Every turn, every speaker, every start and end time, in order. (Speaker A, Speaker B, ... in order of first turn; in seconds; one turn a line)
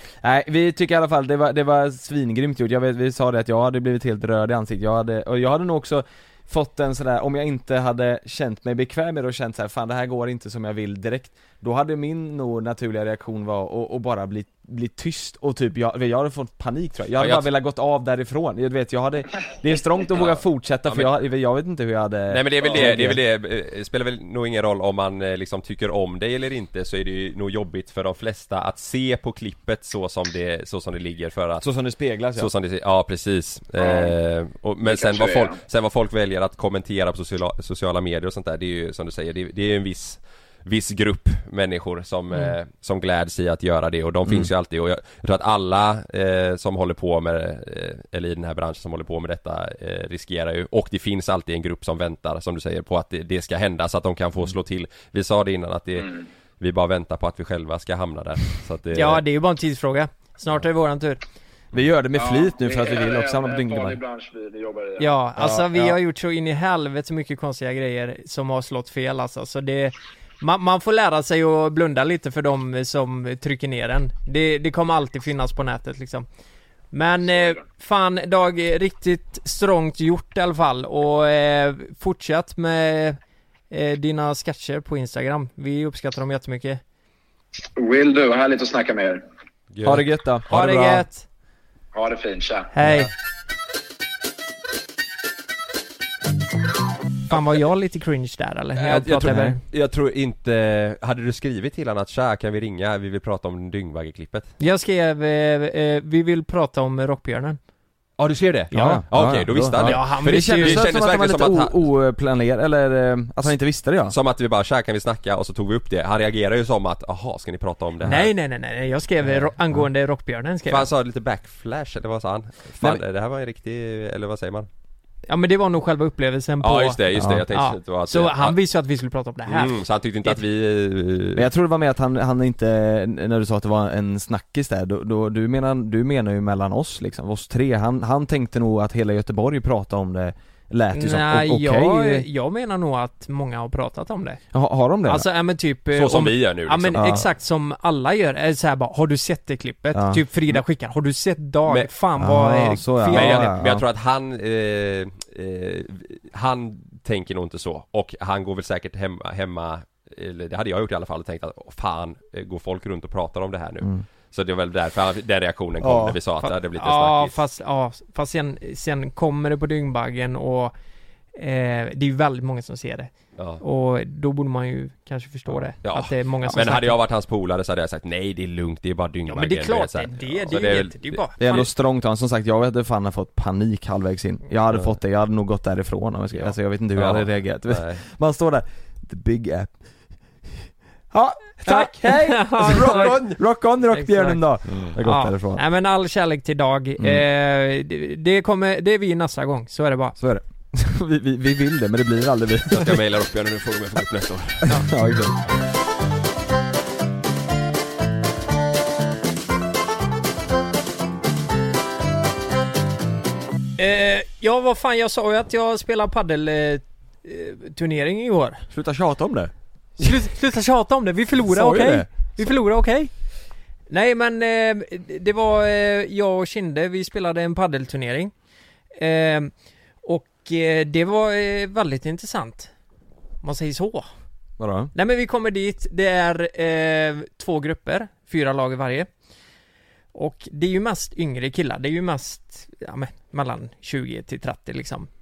Speaker A: 0.2-23.2
Speaker B: 17.2-17.5
Speaker B: 20.2-21.1
Speaker B: 22.3-31.6
Speaker A: 31.6-32.5
Speaker B: 32.3-59.2
Speaker C: 33.8-34.1
Speaker C: 34.8-35.6
Speaker C: 56.0-56.2
Speaker D: 58.9-61.2
Speaker A: 61.7-64.0
Speaker C: 62.1-65.1
Speaker D: 65.0-76.2
Speaker A: 65.4-66.0
Speaker D: 76.9-83.2
Speaker D: 83.7-86.8
Speaker C: 87.8-89.2
Speaker B: 89.7-90.0
Speaker A: 89.8-91.0
Speaker D: 90.5-91.2
Speaker C: 91.9-92.7
Speaker D: 92.7-93.1
Speaker D: 97.3-99.6
Speaker B: 98.8-104.5
Speaker A: 99.2-99.5
Speaker D: 104.6-107.6
Speaker B: 108.2-111.8
Speaker A: 108.7-114.1
Speaker D: 108.7-109.0
Speaker D: 109.7-110.9
Speaker B: 114.1-118.3
Speaker D: 118.0-120.9
Speaker B: 120.7-124.7
Speaker D: 125.3-130.4
Speaker B: 126.6-128.6
Speaker A: 127.2-127.4
Speaker B: 129.5-131.4
Speaker A: 131.3-142.2
Speaker D: 140.9-144.4
Speaker A: 144.5-145.3
Speaker D: 145.1-153.5
Speaker B: 145.9-147.1
Speaker A: 146.9-147.3
Speaker A: 149.9-150.2
Speaker A: 152.2-153.8
Speaker B: 153.1-167.4
Speaker A: 165.8-166.2
Speaker D: 166.4-170.7
Speaker D: 171.3-173.1
Speaker D: 173.6-177.0
Speaker B: 175.8-181.2
Speaker D: 179.3-181.7
Speaker A: 181.4-189.7
Speaker B: 186.3-188.0
Speaker A: 191.1-195.6
Speaker D: 191.7-193.3
Speaker B: 192.6-193.3
Speaker D: 193.9-194.4
Speaker D: 195.0-200.2
Speaker A: 200.2-202.9
Speaker B: 202.7-204.7
Speaker A: 204.6-205.4
Speaker D: 213.8-218.6
Speaker A: 218.7-220.1
Speaker D: 220.0-223.1
Speaker A: 221.4-222.1
Speaker D: 223.9-228.3
Speaker D: 228.9-229.5
Speaker D: 230.0-232.7
Speaker D: 233.4-234.1
Speaker A: 234.6-234.9
Speaker D: 234.9-239.1
Speaker D: 240.1-245.1